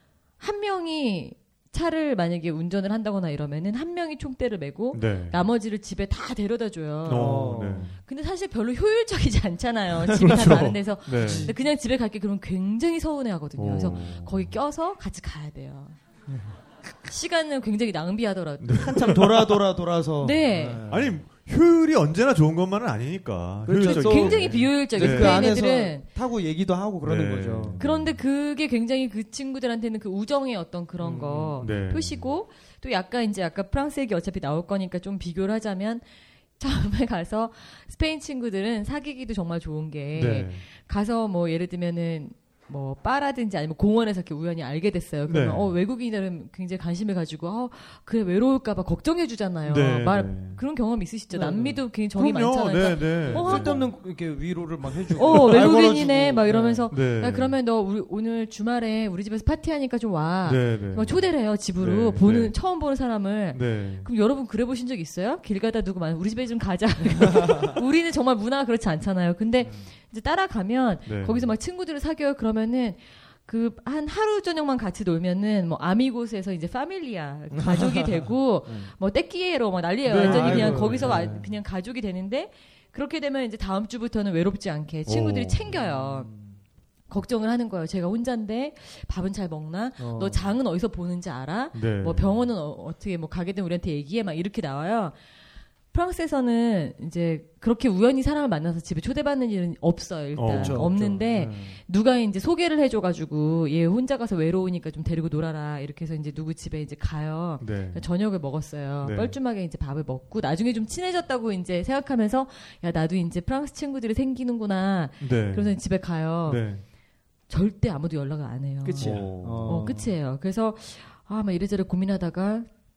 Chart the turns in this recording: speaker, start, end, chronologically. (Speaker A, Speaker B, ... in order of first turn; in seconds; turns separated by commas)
Speaker A: 0.4-16.0, Speaker B: 4.9-5.4, Speaker B: 7.0-8.0, Speaker C: 7.1-7.9, Speaker B: 10.2-11.5, Speaker C: 11.2-11.5, Speaker B: 13.6-14.5, Speaker C: 16.3-16.6, Speaker A: 17.0-19.2, Speaker B: 18.6-19.6, Speaker C: 18.8-21.2, Speaker A: 20.2-20.8, Speaker B: 20.9-25.4, Speaker C: 23.6-27.8, Speaker A: 23.8-26.1, Speaker B: 27.0-28.2, Speaker A: 27.8-36.0, Speaker C: 31.0-31.6, Speaker B: 31.6-32.3, Speaker A: 36.6-53.9, Speaker B: 40.1-40.6, Speaker B: 45.3-45.7, Speaker B: 49.7-50.6, Speaker C: 51.3-51.8, Speaker B: 52.1-53.9, Speaker C: 53.2-56.9, Speaker B: 55.1-55.7, Speaker A: 55.2-86.3, Speaker B: 56.9-57.5, Speaker B: 60.4-62.5, Speaker B: 63.5-64.1, Speaker C: 69.6-69.9, Speaker B: 71.0-71.5, Speaker C: 77.5-78.9, Speaker B: 80.0-81.3, Speaker C: 80.1-81.5, Speaker B: 85.0-85.7, Speaker C: 85.7-86.6, Speaker A: 87.1-95.2, Speaker C: 90.0-90.5, Speaker B: 91.7-92.5, Speaker A: 95.9-116.7, Speaker B: 100.3-101.1, Speaker C: 100.5-101.8, Speaker B: 107.6-108.0, Speaker B: 109.0-109.3, Speaker B: 115.2-115.9, Speaker B: 116.5-116.8, Speaker A: 117.5-122.7, Speaker C: 118.8-120.1, Speaker B: 119.0-119.9